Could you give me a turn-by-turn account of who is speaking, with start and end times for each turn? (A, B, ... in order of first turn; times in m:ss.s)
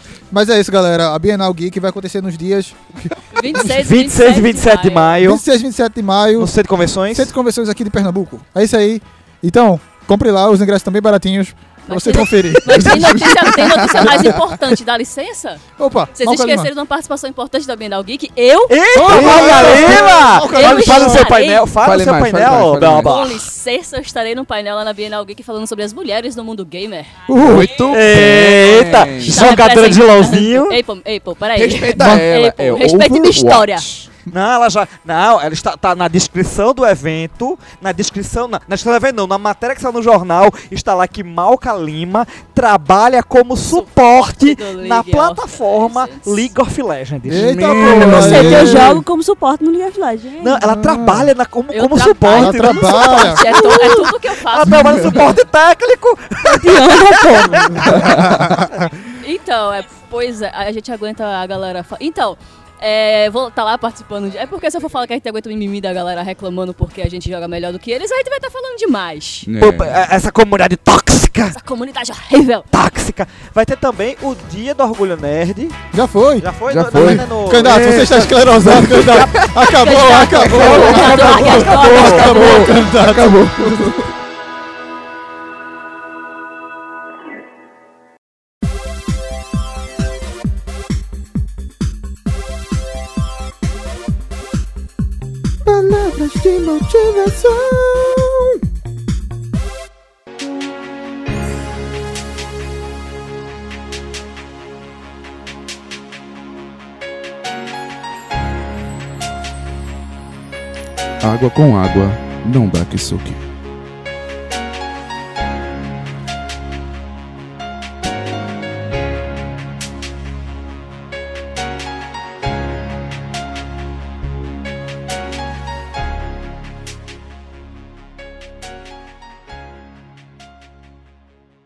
0:00.3-0:03.6 A
0:03.3-0:05.2 B
0:03.6-0:05.4 C
0:05.2-0:06.5 A
0:06.3-0:07.3 C
0:07.1-0:13.0 A
0:11.8-0:15.6 B
0:12.6-0:14.5 D
0:14.0-0:14.3 A
0:15.8-0:16.7 A
0:16.1-0:21.7 B
0:18.7-0:23.5 C
0:18.9-0:21.3 A
0:19.0-0:20.1 D
0:21.8-0:23.1 D
0:23.0-0:27.2 B
0:27.3-0:27.7 A
0:27.3-0:29.5 D
0:27.5-0:30.8 C
0:29.2-0:33.9 B
0:31.5-0:34.1 D
0:32.0-0:32.3 A
0:34.3-0:48.6 C
0:43.6-0:46.5 B
0:47.2-0:49.0 A
0:47.3-0:49.0 D
0:48.0-0:50.6 E
0:50.4-0:58.1 C
0:50.6-0:51.3 A
0:51.7-0:55.3 B
0:52.3-0:53.4 A
0:53.4-0:54.1 E
0:56.4-0:57.9 E
0:57.9-0:58.6 D
0:57.9-0:58.7 A
0:59.2-1:09.5 B
1:09.4-1:10.0 D
1:09.6-1:11.6 C
1:11.5-1:12.7 B
1:12.7-1:15.8 C
1:15.9-1:23.9 A
1:16.4-1:18.3 C
1:16.7-1:19.5 D
1:19.4-1:22.7 B
1:20.3-1:21.1 D
1:20.5-1:22.4 C
1:21.9-1:24.1 D
1:35.6-1:38.5 A
1:51.2-1:53.4 D